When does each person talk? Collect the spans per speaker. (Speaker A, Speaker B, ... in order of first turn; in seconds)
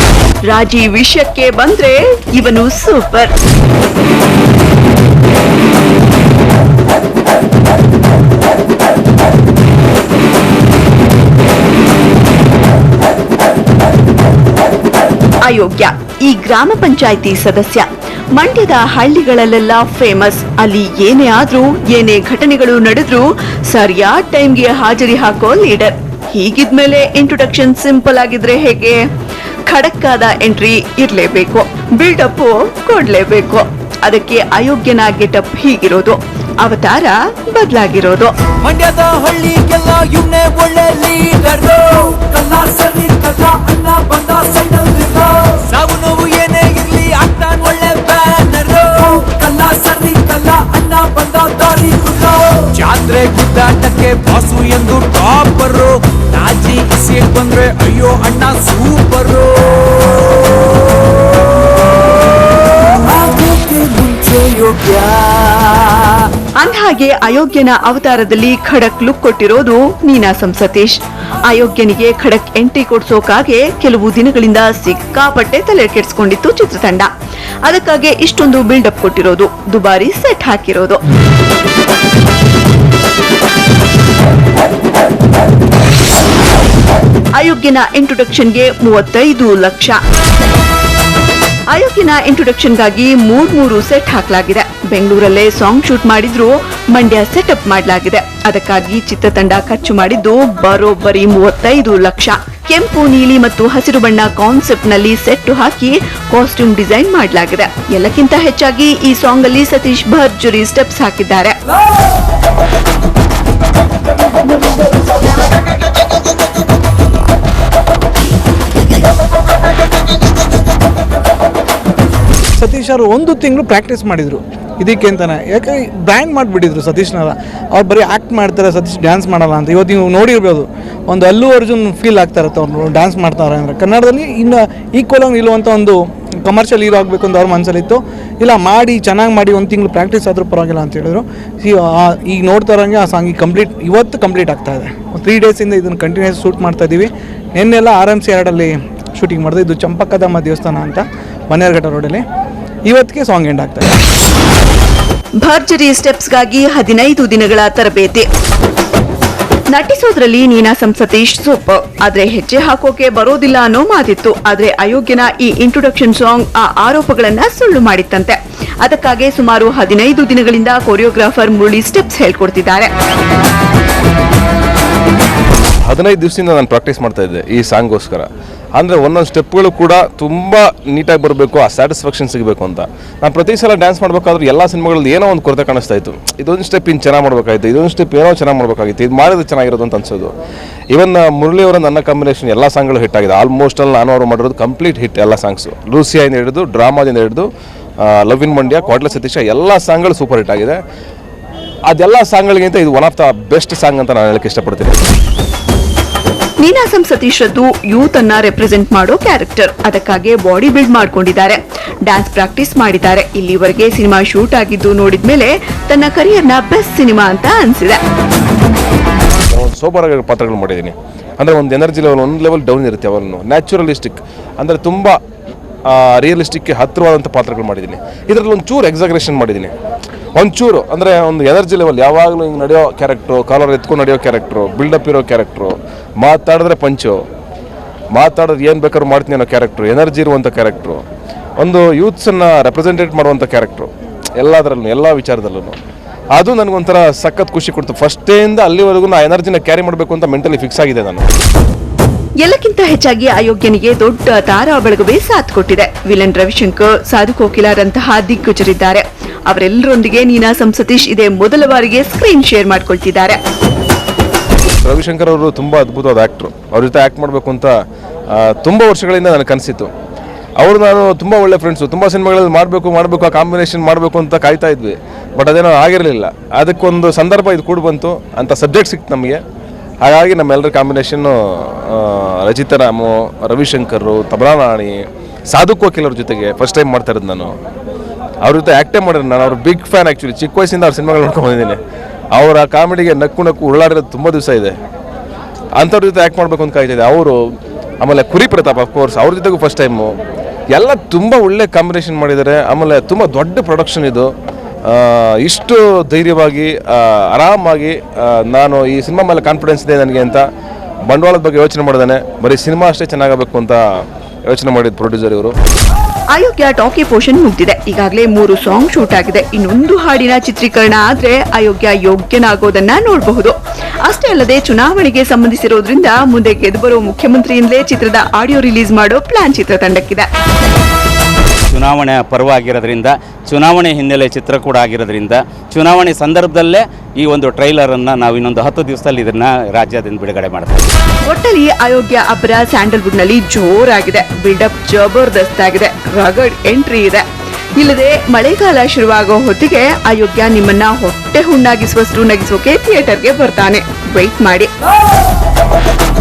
Speaker A: 0.5-3.3, 15.4-29.0, 29.7-38.3, 66.6-77.1, 77.6-81.0, 87.4-90.0, 91.7-111.5, 155.4-158.2, 159.7-172.9, 206.6-218.0, 252.4-263.4, 316.3-330.3, 341.2-347.2, 347.8-354.7
Speaker B: 38.6-60.3, 63.0-66.3
Speaker C: 122.6-152.2, 152.8-153.9
Speaker D: 175.9-190.3, 190.9-197.5, 198.0-200.8, 201.9-205.0, 219.5-225.2, 225.8-229.7, 230.3-237.2, 238.1-241.0, 241.6-245.7, 246.3-251.2, 264.8-267.7, 268.3-269.9, 270.6-279.4, 280.0-287.5, 288.4-291.8, 292.3-294.7, 295.8-300.1, 300.7-304.3, 304.9-310.4, 311.1-313.8, 314.5-315.5
Speaker E: 331.7-340.9